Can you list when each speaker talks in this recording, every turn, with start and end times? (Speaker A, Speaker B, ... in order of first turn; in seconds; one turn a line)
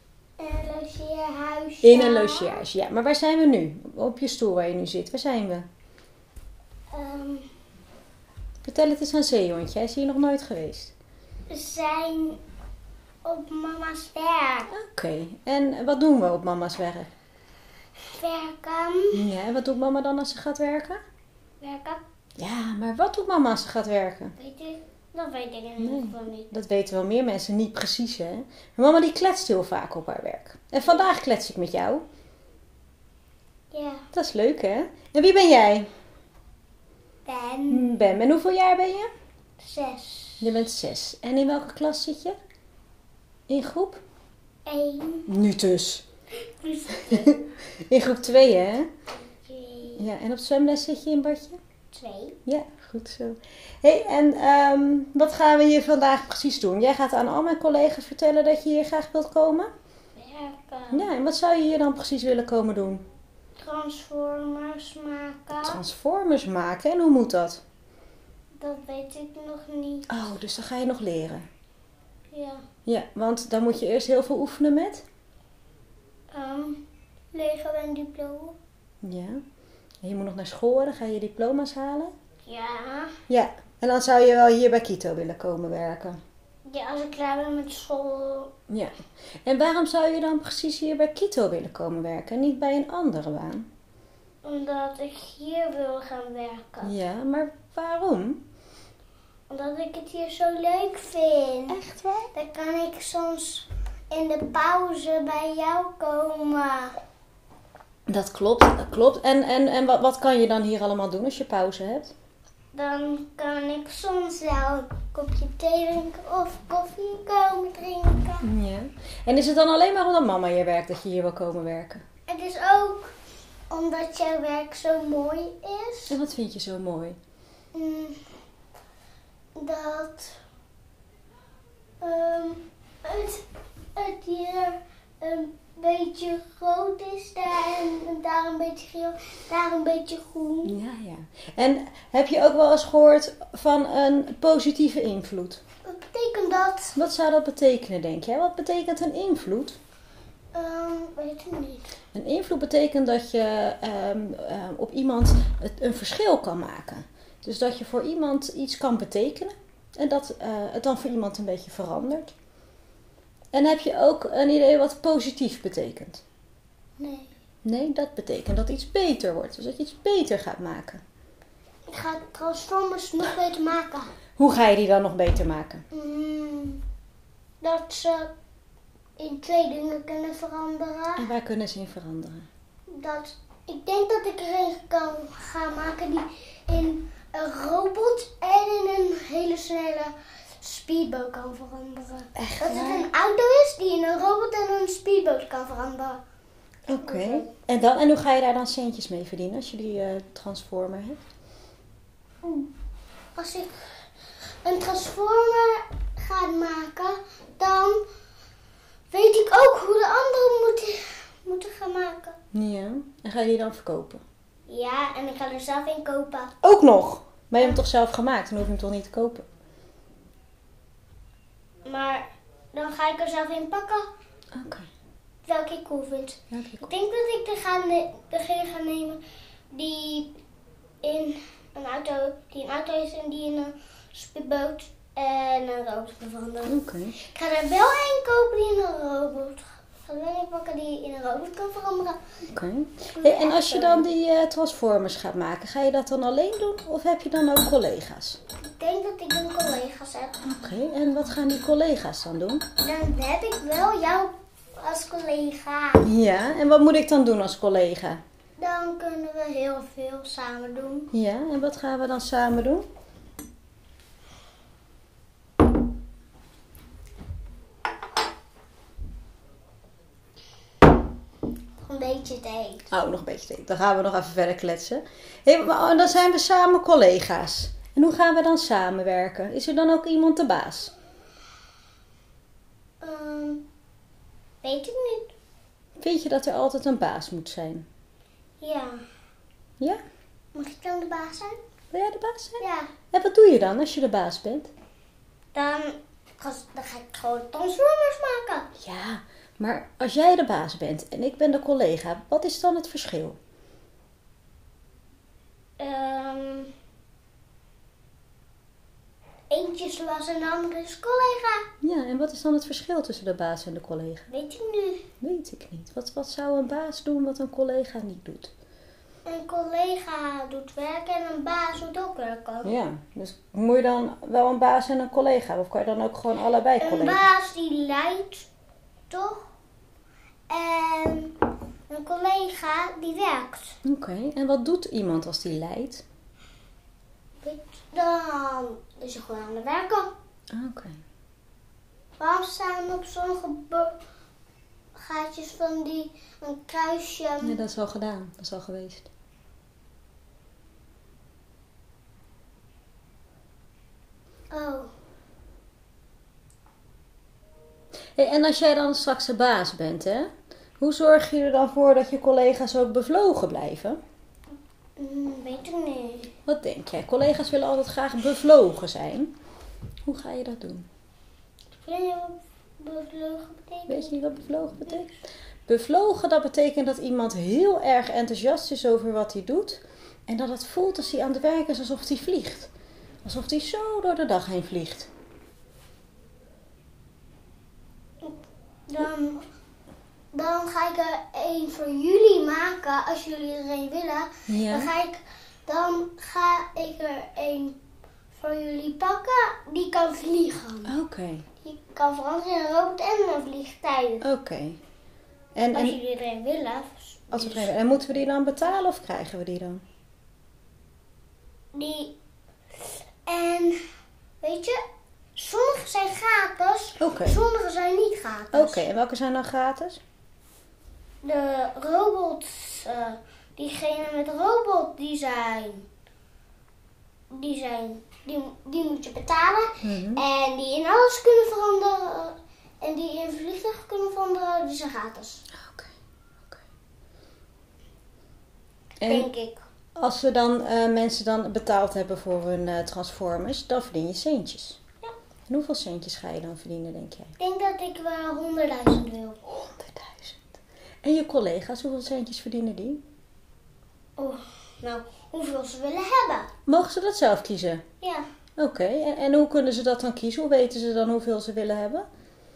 Speaker A: 0.4-2.6
Speaker B: 1.8-5.7
Speaker A: 6.9-7.5
Speaker B: 8.6-10.9
Speaker A: 11.5-12.4
Speaker A: 13.2-14.7
Speaker B: 14.7-17.1
Speaker A: 18.0-19.1
Speaker B: 19.1-21.0
Speaker A: 21.6-22.0
Speaker B: 22.4-24.3
Speaker A: 24.4-26.5
Speaker B: 25.8-32.0
Speaker A: 33.7-34.0
Speaker B: 34.1-35.9
Speaker A: 37.3-37.9
Speaker B: 37.7-39.1
Speaker A: 39.6-40.5
Speaker B: 40.4-42.4
Speaker B: 43.5-44.0
Speaker A: 44.7-45.3
Speaker B: 45.3-46.0
Speaker A: 46.4-47.4
Speaker B: 47.0-48.9
Speaker A: 49.3-50.1
Speaker B: 50.0-51.6
Speaker A: 51.9-52.4
Speaker B: 52.5-59.7
Speaker A: 60.2-61.0
Speaker B: 60.9-63.0
Speaker A: 63.6-65.8
Speaker B: 65.6-67.6
Speaker A: 68.6-70.1
Speaker B: 70.1-71.5
Speaker A: 72.3-72.6
Speaker B: 72.9-75.0
Speaker A: 76.3-78.6
Speaker B: 79.0-79.4
Speaker B: 80.0-82.1
Speaker A: 82.5-83.2
Speaker B: 83.3-86.2
Speaker A: 86.7-88.5
Speaker B: 88.7-93.7
Speaker A: 94.4-96.9
Speaker B: 96.8-98.4
Speaker A: 99.5-101.8
Speaker B: 101.7-102.3
Speaker A: 102.3-107.0
Speaker B: 108.1-112.1
Speaker A: 112.7-118.4
Speaker B: 118.4-122.0
Speaker A: 122.3-123.1
Speaker A: 123.7-126.1
Speaker B: 126.1-127.2
Speaker A: 127.7-128.2
Speaker A: 129.6-130.4
Speaker A: 132.0-133.4
Speaker A: 133.9-140.7
Speaker B: 140.7-145.6
Speaker A: 145.8-147.0
Speaker B: 147.0-149.8
Speaker A: 150.5-151.9
Speaker B: 152.1-162.3
Speaker B: 163.5-166.2
Speaker A: 167.0-167.3
Speaker B: 167.6-171.0
Speaker A: 171.9-174.1
Speaker B: 174.4-175.8
Speaker A: 175.9-176.8
Speaker A: 177.6-178.3
Speaker A: 179.2-181.3
Speaker B: 181.2-182.5
Speaker A: 182.9-196.2
Speaker B: 192.4-193.1
Speaker B: 196.9-201.2
Speaker A: 197.1-197.5
Speaker A: 202.4-202.7
Speaker A: 203.4-203.8
Speaker A: 204.6-208.1
Speaker A: 209.1-212.4
Speaker B: 212.5-214.2
Speaker A: 214.7-216.5
Speaker B: 216.6-219.5
Speaker A: 221.8-224.1
Speaker B: 224.5-224.9
Speaker A: 225.5-229.2
Speaker B: 226.5-226.9
Speaker A: 229.7-230.3
Speaker A: 231.0-242.2
Speaker B: 236.7-237.1
Speaker B: 242.5-248.4
Speaker A: 243.2-244.1
Speaker A: 248.7-250.4
Speaker B: 250.4-252.6
Speaker A: 252.8-256.0
Speaker B: 256.0-258.2
Speaker A: 258.6-261.1
Speaker B: 261.1-262.9
Speaker A: 271.9-272.8
Speaker B: 272.9-280.9
Speaker A: 283.0-283.6
Speaker A: 284.6-285.3
Speaker B: 286.0-287.9
Speaker A: 288.6-289.0
Speaker A: 290.6-291.6
Speaker B: 291.9-294.7
Speaker A: 295.5-298.7
Speaker B: 298.8-303.4
Speaker A: 305.8-306.7
Speaker A: 309.5-311.6
Speaker B: 311.8-314.3
Speaker A: 314.3-315.0
Speaker B: 315.2-318.5
Speaker A: 319.3-322.7
Speaker B: 322.6-327.3
Speaker A: 326.8-328.5
Speaker A: 329.1-329.5
Speaker A: 330.5-331.4
Speaker A: 331.9-333.8
Speaker B: 333.8-336.0
Speaker A: 337.4-340.1
Speaker B: 340.5-341.0
Speaker A: 342.2-344.0
Speaker A: 345.0-347.5
Speaker B: 347.4-349.1
Speaker A: 354.5-354.9
Speaker B: 358.2-364.0
Speaker A: 365.0-366.3
Speaker B: 366.5-369.3
Speaker B: 370.1-370.9
Speaker A: 371.8-374.1
Speaker B: 373.9-375.2
Speaker B: 375.7-382.7
Speaker B: 383.2-385.1
Speaker A: 388.2-389.5
Speaker A: 390.3-397.8
Speaker B: 394.5-394.9
Speaker A: 398.3-400.9
Speaker B: 400.9-401.5
Speaker A: 401.6-404.2
Speaker B: 404.2-404.8
Speaker B: 405.6-406.0
Speaker A: 405.7-407.7
Speaker B: 407.3-409.8
Speaker A: 411.7-412.1
Speaker A: 412.7-413.8
Speaker A: 414.4-414.8
Speaker A: 415.4-418.8
Speaker B: 417.0-417.4
Speaker B: 418.5-420.0
Speaker A: 421.2-425.9
Speaker A: 427.4-435.4
Speaker B: 429.8-430.2
Speaker B: 435.5-435.9
Speaker B: 439.0-439.3
Speaker A: 439.1-439.6
Speaker B: 440.0-444.8
Speaker B: 445.5-447.3
Speaker A: 447.4-449.4
Speaker B: 449.4-453.0
Speaker A: 454.2-456.5
Speaker B: 456.7-457.8
Speaker B: 458.6-462.1